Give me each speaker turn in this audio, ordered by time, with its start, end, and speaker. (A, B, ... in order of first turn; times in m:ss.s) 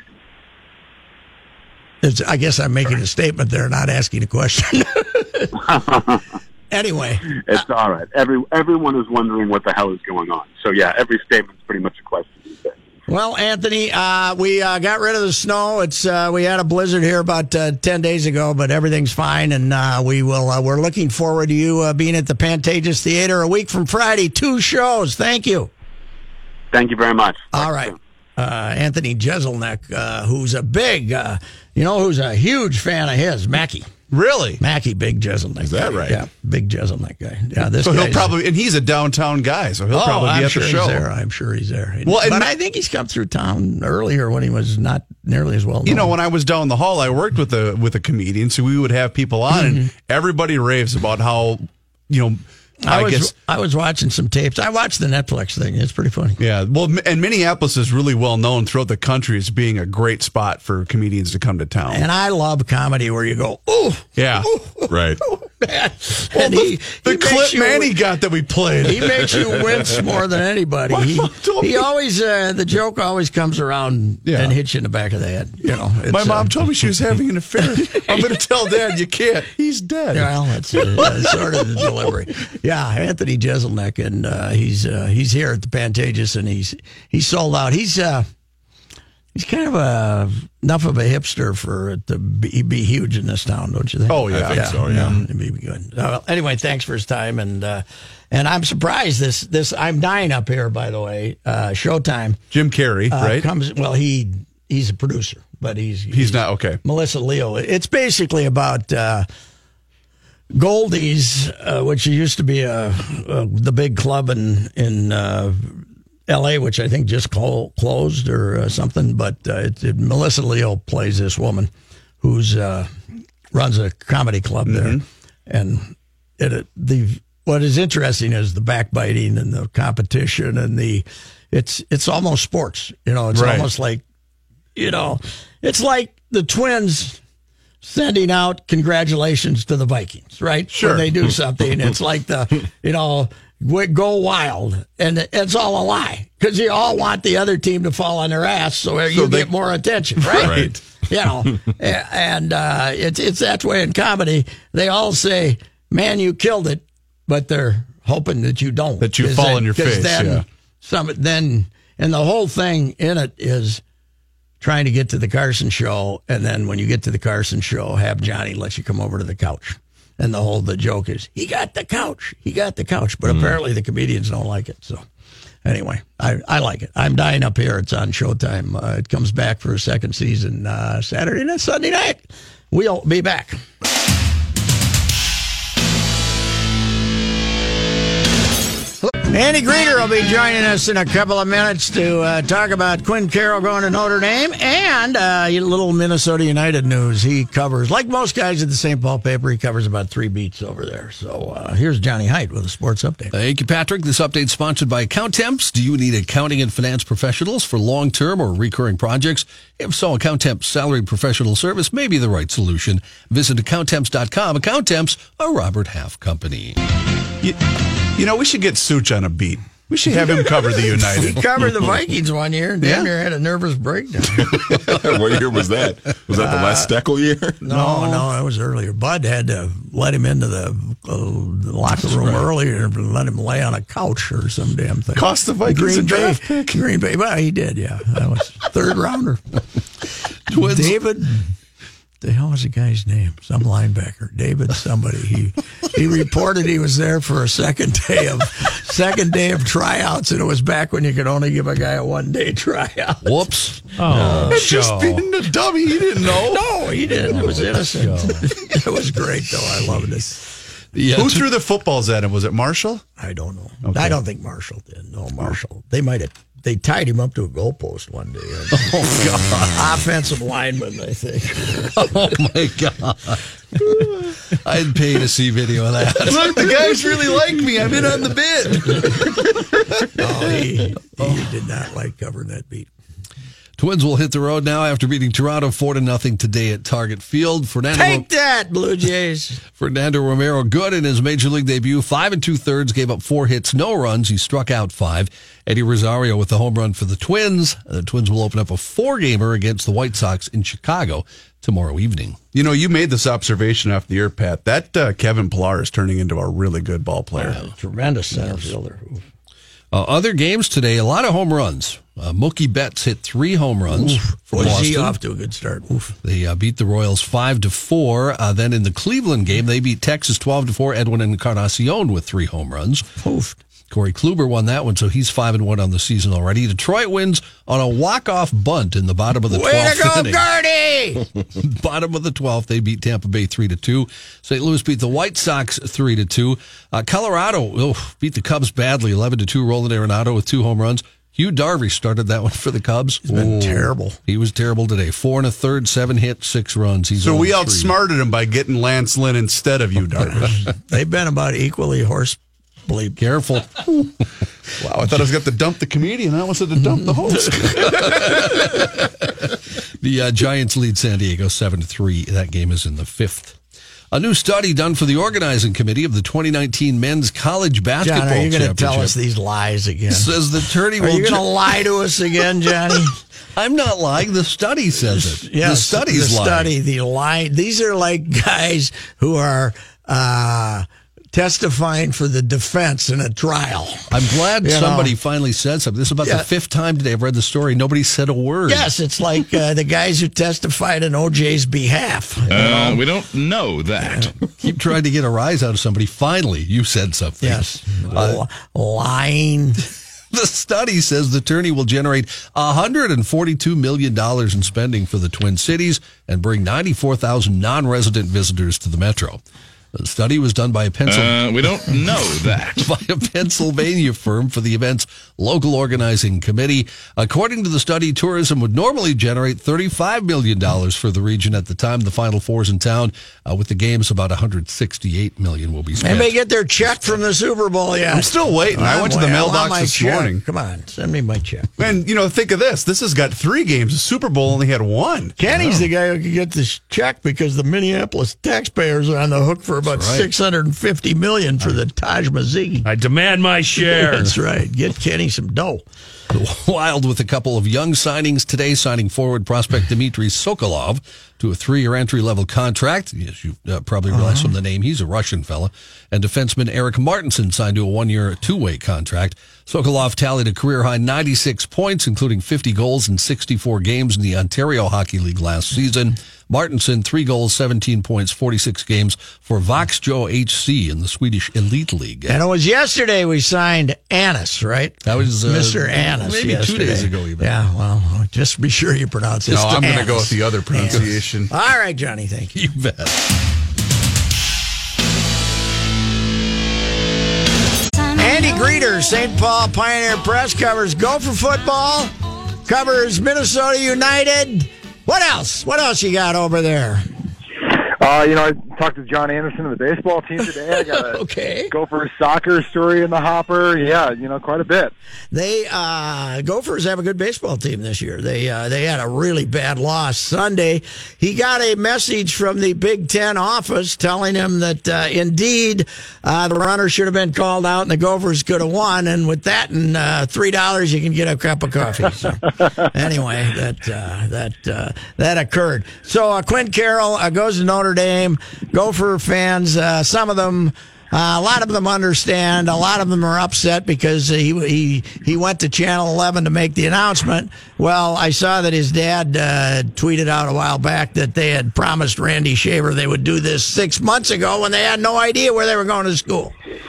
0:02.0-0:05.6 A
0:05.6-0:06.2 B
0:06.7-0:07.4 A
0:07.3-0:12.8 B
0:13.1-0:25.7 A
0:26.7-0:28.0 B
0:27.5-0:33.9 A
0:34.1-0:34.6 C
0:34.6-0:38.3 A
0:35.6-0:36.2 D
0:37.8-0:41.0 C
0:39.9-0:46.1 A
0:42.1-0:42.5 C
0:45.9-0:53.3 C
0:49.6-0:49.9 A
0:52.8-0:56.4 A
0:56.4-1:02.1 C
1:01.9-1:07.9 A
1:04.2-1:04.5 C
1:04.9-1:05.2 D
1:06.3-1:09.8 C
1:08.8-1:16.6 A
1:10.9-1:11.8 C
1:14.3-1:14.6 C
1:16.1-1:21.2 C
1:20.1-1:28.3 A
1:29.3-1:42.4 A
1:34.1-1:35.3 C
1:34.3-1:35.2 D
1:42.5-1:43.5 C
1:43.1-1:49.3 A
1:46.1-1:46.8 C
1:50.5-2:01.7 A
2:02.2-2:03.0 A
2:03.5-2:14.0 A
2:04.7-2:05.0 C
2:13.3-2:13.7 C
2:14.8-2:17.2 A
2:17.8-2:43.8 A
2:20.7-2:21.1 C
2:29.1-2:29.5 C
2:30.2-2:30.7 C
2:30.4-2:30.8 D
2:39.0-2:40.4 C
2:44.6-2:55.0 A
2:55.6-3:03.6 A
3:09.3-3:23.3 A
3:23.3-3:36.8 E
3:38.2-3:41.4 C
3:41.2-3:44.5 A
3:42.8-3:43.1 C
3:44.5-3:47.6 D
3:46.4-3:46.9 A
3:47.6-3:59.4 A
3:47.7-3:48.2 C
3:55.2-3:56.8 C
4:00.5-4:00.9 E
4:00.5-4:01.5 A
4:02.2-4:13.5 A
4:13.2-4:14.6 E
4:14.0-4:15.2 F
4:14.1-4:14.5 A
4:14.3-4:16.6 C
4:16.5-4:20.4 A
4:17.3-4:18.5 E
4:20.9-4:21.5 E
4:21.1-4:23.0 C
4:23.2-4:29.0 A
4:23.9-4:24.1 C
4:28.7-4:29.8 E
4:29.7-4:32.0 A
4:31.9-4:36.7 E
4:36.2-4:39.3 C
4:40.2-4:42.9 A
4:43.8-4:48.3 E
4:47.9-4:49.6 A
4:49.8-5:02.4 E
5:02.5-5:07.6 C
5:07.4-5:09.2 A
5:09.9-5:15.2 E
5:13.9-5:16.1 A
5:16.2-5:23.0 E
5:23.2-5:23.6 A
5:23.9-5:30.4 E
5:29.5-5:31.2 A
5:31.6-5:47.9 E
5:43.2-5:44.2 A
5:47.2-5:50.6 C
5:50.6-5:53.2 A
5:53.2-5:54.0 E
5:54.8-5:58.7 C
5:57.9-5:59.5 E
6:00.0-6:03.6 E
6:04.1-6:09.1 E
6:08.0-6:10.4 A
6:10.1-6:11.5 E
6:11.0-6:13.2 A
6:13.6-6:16.7 E
6:15.1-6:25.1 A
6:24.1-6:28.9 E
6:28.7-6:33.0 A
6:32.5-6:34.4 G
6:34.6-6:38.4 E
6:37.4-6:39.8 A
6:40.3-6:49.4 E
6:49.9-6:51.5 E
6:51.1-6:52.9 G
6:52.8-7:06.3 E
7:06.0-7:11.7 A
7:08.1-7:10.4 C
7:11.8-7:15.4 C
7:15.4-7:22.9 A
7:19.9-7:20.3 E
7:22.9-7:24.2 F
7:23.8-7:25.8 A
7:26.3-7:52.4 E
7:34.1-7:34.5 A
7:52.3-8:02.6 A
7:55.0-7:57.5 E
7:59.5-8:01.5 C
8:02.6-8:03.1 E
8:08.2-8:12.1 A
8:12.7-8:17.1 A
8:18.0-8:21.2 H
8:21.1-8:21.7 A
8:21.7-8:24.9 H
8:25.3-9:06.5 A